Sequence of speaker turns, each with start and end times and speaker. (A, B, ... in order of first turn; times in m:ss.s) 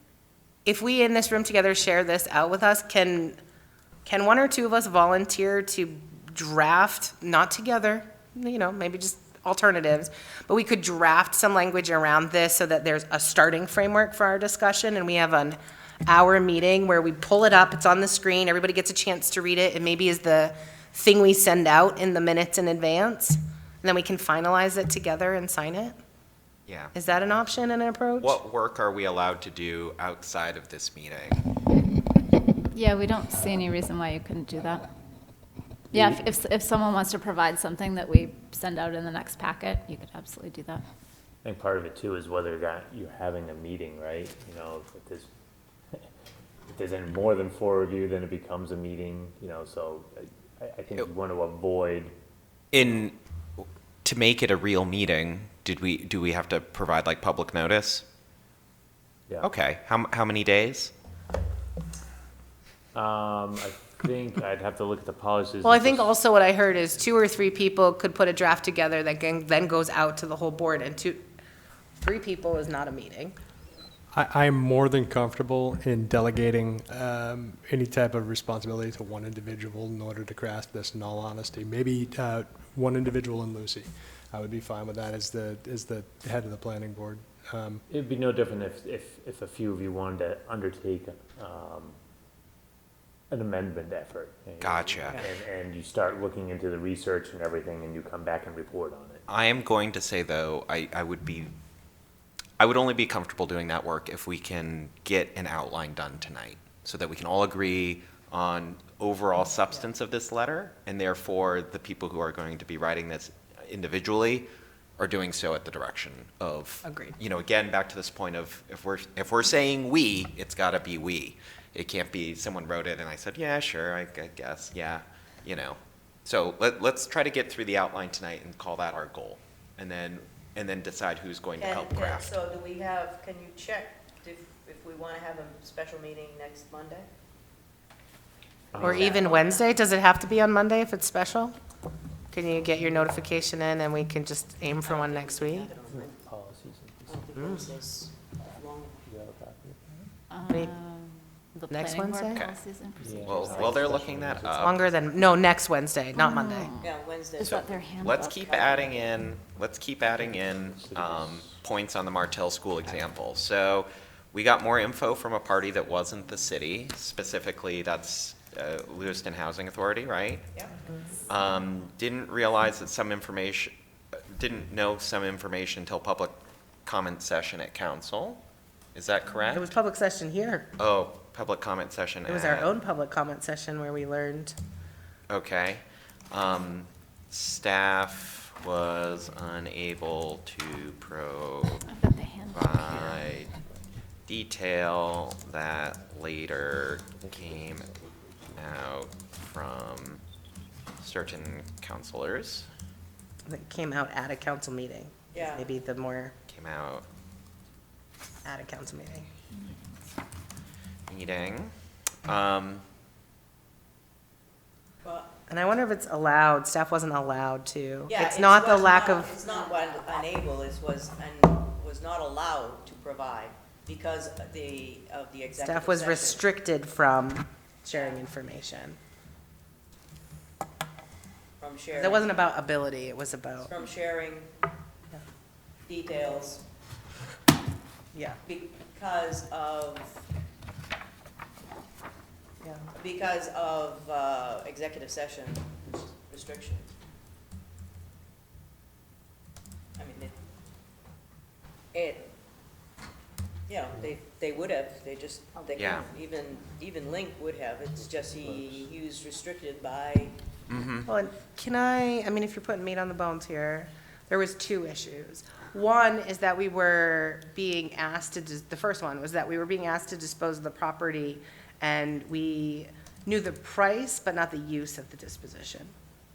0:00.6-0:03.4 A
0:04.0-0:26.0 A
0:26.7-0:26.9 B
0:26.9-0:28.4 A
0:28.2-0:31.4 B
0:32.7-0:34.8 C
0:35.9-0:36.2 D
0:35.9-0:40.8 C
0:41.4-0:45.3 D
0:46.7-0:52.1 D
0:52.7-0:58.0 B
0:59.4-1:00.9 B
1:02.9-1:06.1 D
1:05.6-1:11.2 A
1:12.0-1:13.4 A
1:14.1-1:27.8 E
1:27.9-1:32.0 D
1:33.3-1:39.2 D
1:34.6-1:35.3 B
1:39.3-1:41.5 B
1:42.6-1:54.5 B
1:55.0-2:12.3 B
1:56.8-1:57.2 A
2:11.6-2:17.1 F
2:18.7-2:19.2 D
2:18.7-2:19.7 F
2:18.8-2:21.5 A
2:22.3-2:25.7 A
2:24.8-2:26.2 F
2:25.9-2:27.6 D
2:27.1-2:29.0 F
2:27.3-2:27.7 A
2:29.0-2:30.1 D
2:30.3-2:34.1 C
2:31.7-2:32.4 A
2:33.0-2:34.9 D
2:33.2-2:34.8 B
2:34.6-2:36.7 A
2:36.1-2:38.4 C
2:36.8-2:37.8 F
2:37.4-2:50.5 B
2:38.3-2:39.0 F
2:40.1-2:41.6 D
2:51.3-2:53.7 B
2:54.3-2:58.4 B
2:58.9-2:59.7 B
2:59.5-3:00.7 A
3:00.8-3:02.7 B
3:02.2-3:04.6 A
3:05.3-3:11.8 B
3:11.8-3:13.5 C
3:12.5-3:13.5 B
3:14.3-3:17.9 B
3:17.3-3:18.6 D
3:18.6-3:20.2 B
3:21.0-3:22.7 B
3:23.4-3:26.3 A
3:25.3-3:25.7 F
3:26.5-3:27.0 B
3:28.4-3:29.3 A
3:31.1-3:31.7 B
3:32.2-3:32.8 B
3:35.0-3:35.3 F
3:35.5-3:39.3 A
3:38.1-3:46.4 F
3:45.6-3:49.0 A
3:47.9-3:48.2 F
3:51.6-3:52.3 F
3:51.9-3:53.7 A
3:53.6-3:54.5 F
3:55.9-3:56.6 F
3:58.1-3:58.4 A
3:58.4-4:00.1 F
4:03.0-4:06.9 F
4:10.0-4:10.3 F
4:11.9-4:12.3 F
4:13.7-4:20.3 F
4:15.7-4:16.1 B
4:18.4-4:18.9 D
4:20.7-4:21.1 B
4:21.1-4:35.9 A